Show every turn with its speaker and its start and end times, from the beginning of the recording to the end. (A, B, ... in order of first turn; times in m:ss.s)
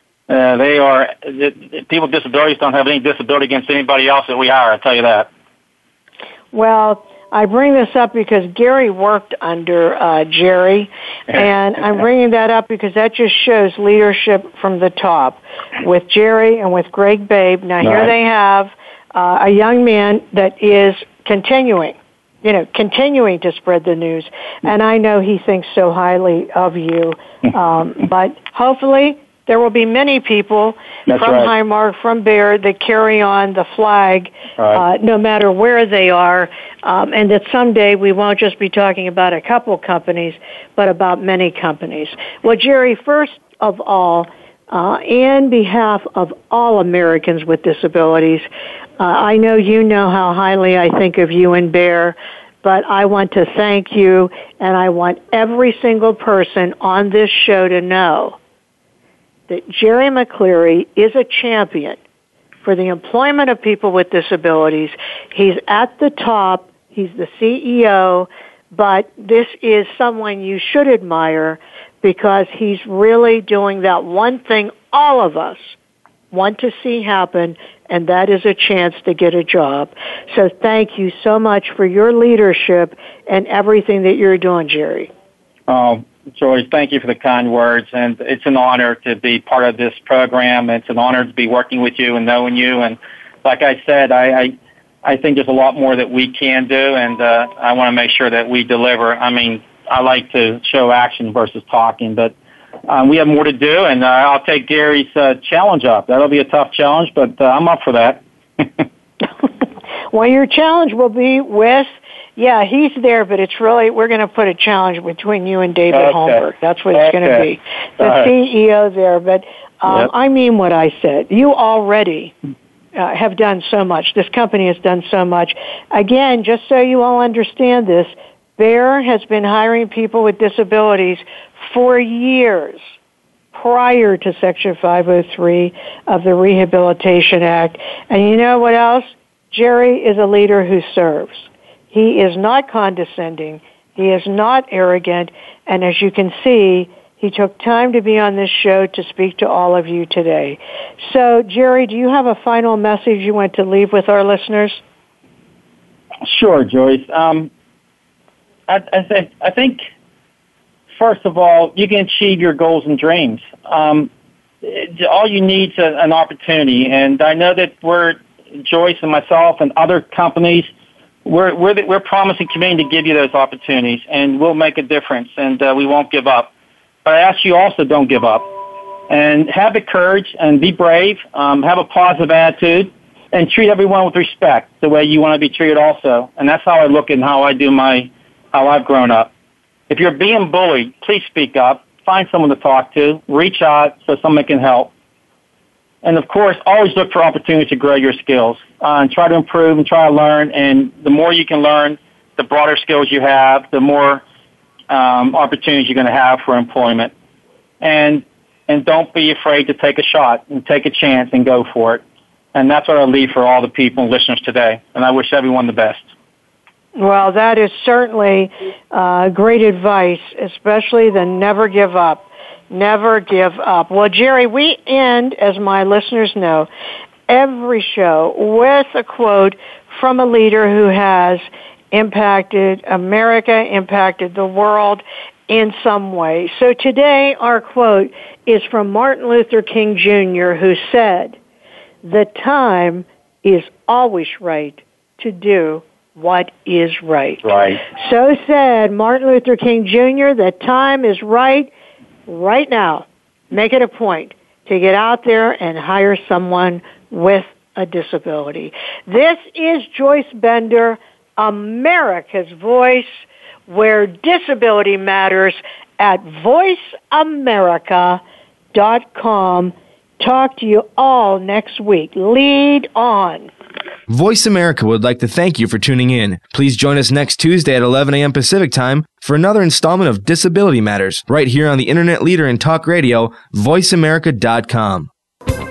0:00.3-0:05.3 A
0:06.5-0:48.5 B
0:17.8-0:18.1 A
0:31.1-0:31.5 A
0:34.6-0:34.8 A
0:49.0-0:58.4 B
0:59.5-1:02.0 B
1:02.6-1:15.8 B
1:16.3-1:25.1 B
1:25.7-1:42.3 A
1:42.9-1:48.8 A
1:50.1-2:02.3 B
1:55.9-1:57.5 A
1:58.0-1:58.3 A
2:03.0-2:12.8 B
2:13.5-2:34.8 B
2:36.2-2:37.5 A
2:38.7-2:39.8 A
2:41.0-2:44.1 A
2:44.6-2:50.7 A
2:51.2-2:56.5 A
2:57.0-2:58.5 A
2:59.1-3:09.3 A
3:09.9-3:14.9 A
3:16.0-3:24.2 A
3:24.9-3:27.1 A
3:27.8-3:32.0 A
3:32.5-3:36.1 A
3:37.0-3:46.7 B
3:47.3-4:01.4 B
4:02.0-4:11.7 B
4:07.4-4:07.8 A
4:12.3-4:28.2 B
4:28.7-4:33.5 B
4:34.1-4:45.1 C